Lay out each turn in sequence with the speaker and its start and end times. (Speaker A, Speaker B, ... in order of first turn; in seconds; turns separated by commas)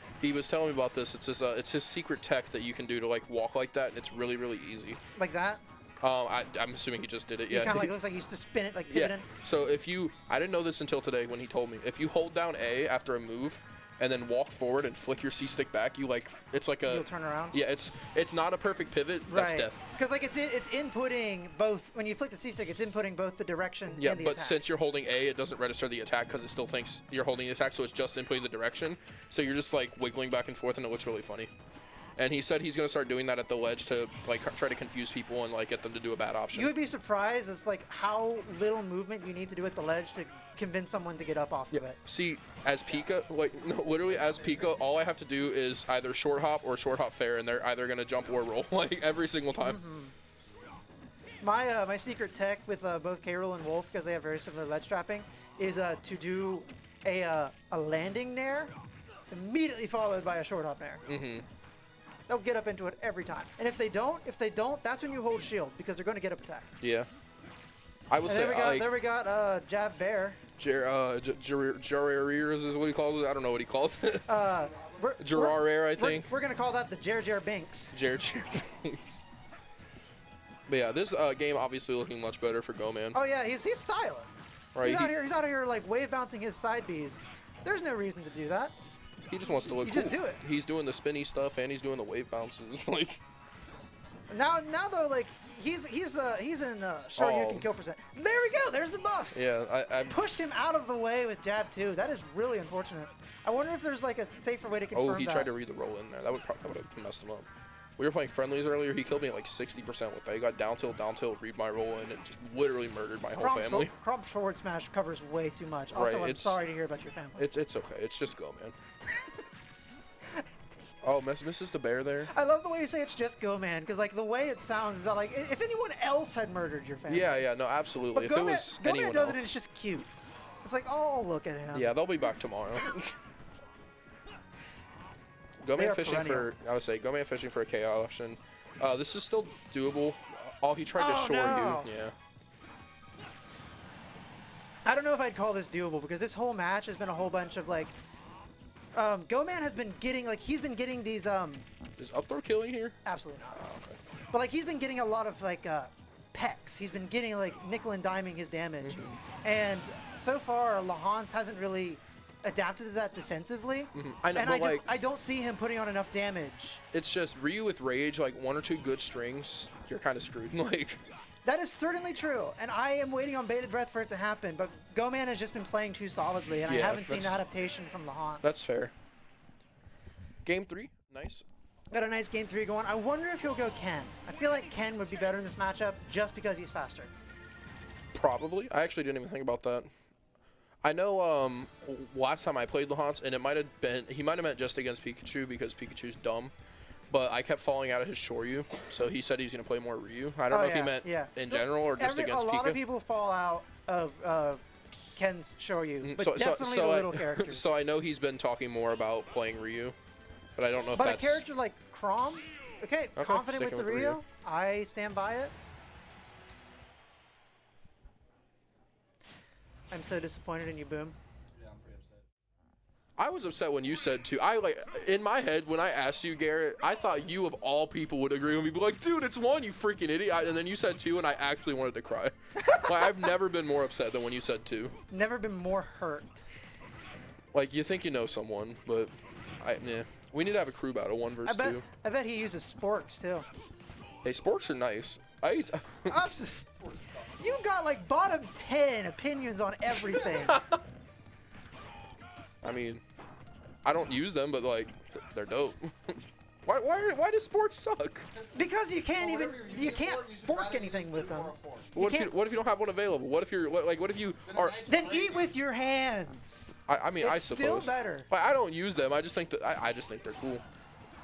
Speaker A: 0.2-5.0, Speaker B: 5.2-5.6, Speaker A: 6.0-7.9, Speaker B: 7.5-9.3, Speaker A: 8.9-19.8, Speaker B: 16.9-17.6, Speaker B: 19.3-24.6, Speaker A: 23.9-31.5, Speaker A: 32.2-36.7, Speaker B: 36.5-42.0, Speaker A: 41.7-49.8, Speaker B: 49.6-50.1, Speaker B: 51.4-58.7, Speaker B: 59.3-61.1, Speaker A: 61.1-61.5, Speaker B: 62.3-66.7, Speaker A: 66.8-67.1, Speaker A: 68.1-68.9, Speaker B: 68.2-70.4, Speaker A: 70.6-74.4, Speaker B: 74.3-78.0, Speaker A: 75.2-76.3, Speaker A: 77.9-79.2, Speaker A: 80.7-83.2, Speaker B: 83.1-88.7, Speaker A: 84.8-85.1, Speaker A: 89.3-93.2, Speaker B: 89.4-90.4, Speaker B: 94.3-99.5, Speaker A: 97.2-97.7, Speaker A: 99.3-100.2, Speaker B: 100.1-105.5, Speaker A: 104.9-113.9, Speaker B: 113.3-117.5, Speaker A: 115.9-116.6, Speaker A: 117.4-118.8, Speaker A: 121.0-122.3, Speaker B: 122.3-127.5, Speaker A: 127.1-129.4, Speaker B: 128.1-130.1, Speaker B: 130.6-131.9, Speaker A: 131.7-133.2, Speaker A: 135.6-142.1, Speaker B: 135.7-136.5, Speaker B: 141.0-141.9, Speaker B: 144.9-147.9, Speaker B: 148.9-151.7, Speaker A: 152.0-153.0, Speaker B: 153.1-153.6, Speaker A: 153.5-154.0, Speaker B: 154.3-166.8, Speaker A: 158.8-159.2, Speaker A: 163.9-164.9, Speaker A: 166.9-171.0, Speaker B: 171.4-178.6, Speaker A: 176.7-177.4, Speaker A: 178.4-178.9, Speaker A: 180.4-181.4, Speaker B: 181.9-187.1, Speaker A: 188.1-189.9, Speaker A: 190.8-196.5, Speaker A: 197.1-202.8, Speaker B: 200.5-204.6, Speaker B: 205.2-207.7, Speaker A: 206.0-209.9, Speaker A: 210.6-211.4, Speaker B: 210.9-215.5, Speaker A: 213.2-214.2, Speaker B: 219.9-221.2, Speaker C: 221.6-222.2, Speaker A: 223.2-235.0, Speaker B: 232.6-233.3, Speaker B: 235.1-236.4, Speaker A: 237.5-241.8, Speaker B: 241.4-243.5, Speaker A: 244.2-246.3, Speaker B: 246.1-246.7, Speaker C: 246.8-247.6, Speaker B: 247.4-250.7, Speaker A: 250.1-250.8, Speaker A: 252.6-253.0, Speaker A: 253.8-258.3, Speaker C: 258.3-262.0, Speaker B: 258.5-262.3, Speaker A: 261.9-264.8, Speaker C: 264.4-265.5, Speaker B: 264.9-268.3, Speaker A: 266.9-270.6